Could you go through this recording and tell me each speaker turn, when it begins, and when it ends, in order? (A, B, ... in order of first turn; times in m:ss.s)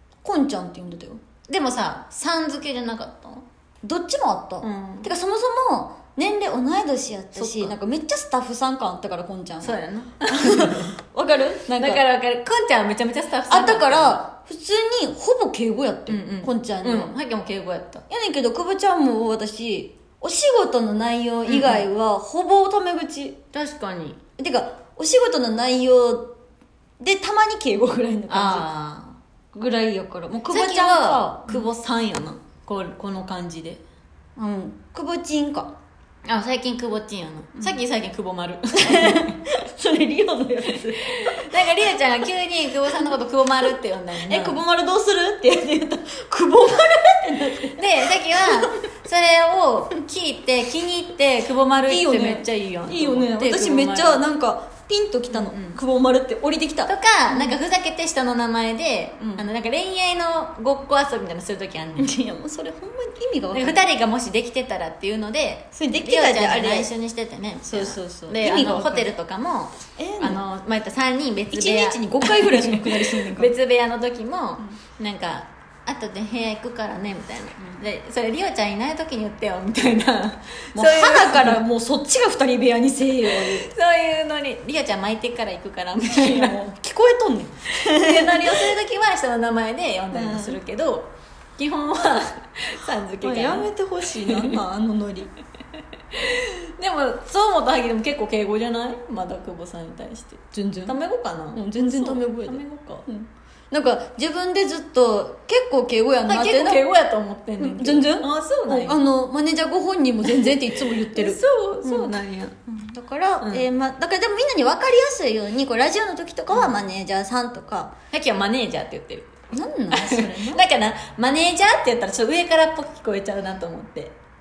0:00.2-0:01.2 A
0:01.4-0:03.4 B
0:03.8-0:09.8 A
0:04.6-0:05.1 B
0:07.3-0:07.8 B
0:09.6-0:10.9 B
0:10.3-0:12.0 A
0:11.7-0:14.2 B
0:13.5-0:17.1 A
0:16.1-0:18.0 B
0:18.1-0:23.4 A
0:21.4-0:21.8 B
0:23.5-0:24.2 B
0:24.4-0:26.3 A
0:27.0-0:28.7 A
0:28.3-0:29.2 B
0:29.5-0:31.7 A
0:30.5-0:33.8 B
0:34.4-0:35.7 A
0:36.2-0:39.4 B
0:38.8-0:41.3 A
0:40.7-0:44.6 B
0:44.2-0:48.7 A
0:47.7-0:54.2 B
0:51.9-0:57.6 A
0:55.3-0:55.8 B
0:56.8-1:02.1 B
0:59.2-0:59.4 A
1:02.0-1:03.8 A
1:03.5-1:21.6 B
1:05.7-1:06.9 A
1:07.6-1:09.2 A
1:10.0-1:10.4 A
1:11.5-1:13.5 A
1:20.7-1:23.7 A
1:23.3-1:26.6 B
1:26.1-1:28.7 A
1:27.7-1:33.7 B
1:30.1-1:30.6 A
1:33.2-1:35.3 A
1:34.3-1:34.6 B
1:36.1-1:43.0 B
1:40.5-1:41.0 A
1:41.5-1:46.8 A
1:46.2-1:49.0 B
1:47.6-1:52.1 A
1:50.2-1:52.6 B
1:52.7-1:57.9 A
1:53.4-1:53.7 B
1:58.1-1:59.4 B
1:59.5-2:00.6 A
1:59.9-2:04.1 B